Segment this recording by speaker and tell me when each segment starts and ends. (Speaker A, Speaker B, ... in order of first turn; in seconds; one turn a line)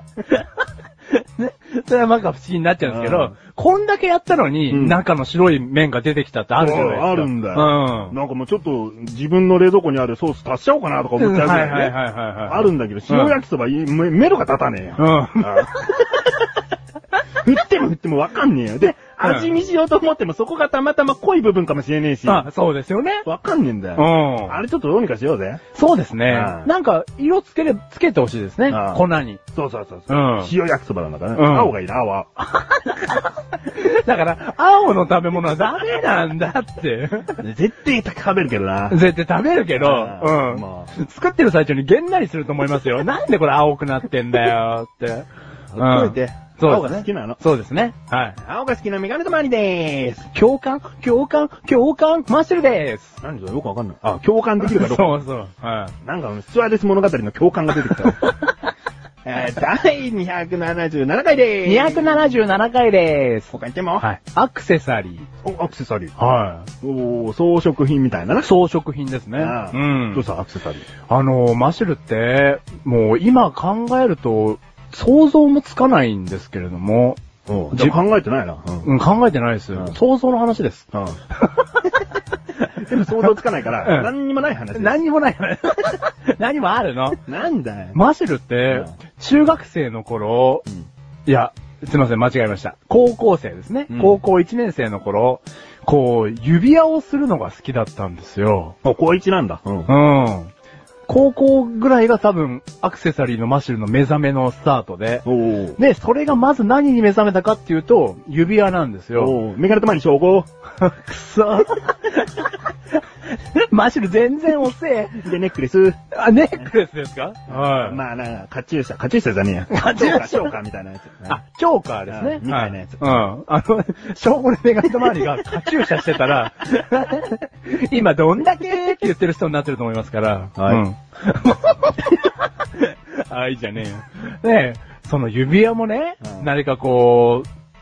Speaker A: 0.2-0.5
Speaker A: 1.1-8.2
Speaker B: 2.8-3.3
Speaker B: 4.7-5.0
Speaker B: 6.6-16.2
Speaker A: 11.2-13.4
Speaker A: 15.0-16.0
Speaker B: 17.4-22.5
Speaker A: 19.2-19.5
Speaker A: 22.3-23.3
Speaker B: 23.2-25.6
Speaker A: 24.0-24.6
Speaker A: 25.7-29.4
Speaker B: 26.3-26.7
Speaker B: 28.7-32.3
Speaker A: 30.1-30.5
Speaker A: 31.4-31.7
Speaker A: 32.5-37.4
Speaker B: 37.4-39.0
Speaker A: 38.9-48.4
Speaker B: 39.8-40.9
Speaker B: 45.7-47.4
Speaker B: 48.4-50.3
Speaker A: 50.3-53.2
Speaker B: 53.2-55.2
Speaker A: 54.6-56.0
Speaker B: 56.0-58.3
Speaker B: 59.2-62.3
Speaker A: 61.6-65.3
Speaker B: 63.5-64.1
Speaker B: 65.4-66.2
Speaker A: 66.2-66.7
Speaker B: 66.8-68.5
Speaker A: 68.4-70.3
Speaker B: 69.4-70.9
Speaker A: 71.1-77.2
Speaker B: 77.5-78.9
Speaker A: 78.8-80.9
Speaker B: 80.9-81.2
Speaker A: 81.4-81.7
Speaker B: 82.7-85.0
Speaker A: 83.8-84.1
Speaker A: 84.8-87.2
Speaker B: 87.3-88.0
Speaker A: 87.9-90.7
Speaker A: 91.3-98.8
Speaker B: 93.9-94.2
Speaker B: 98.8-99.9
Speaker A: 99.9-100.5
Speaker A: 101.1-105.3
Speaker B: 105.2-105.8
Speaker A: 105.8-109.4
Speaker B: 109.2-110.5
Speaker A: 110.8-112.7
Speaker A: 113.3-115.3
Speaker B: 115.2-116.0
Speaker A: 116.1-118.0
Speaker B: 117.5-121.4
Speaker A: 119.7-120.5
Speaker A: 121.3-137.5
Speaker B: 122.1-123.3
Speaker B: 130.6-130.8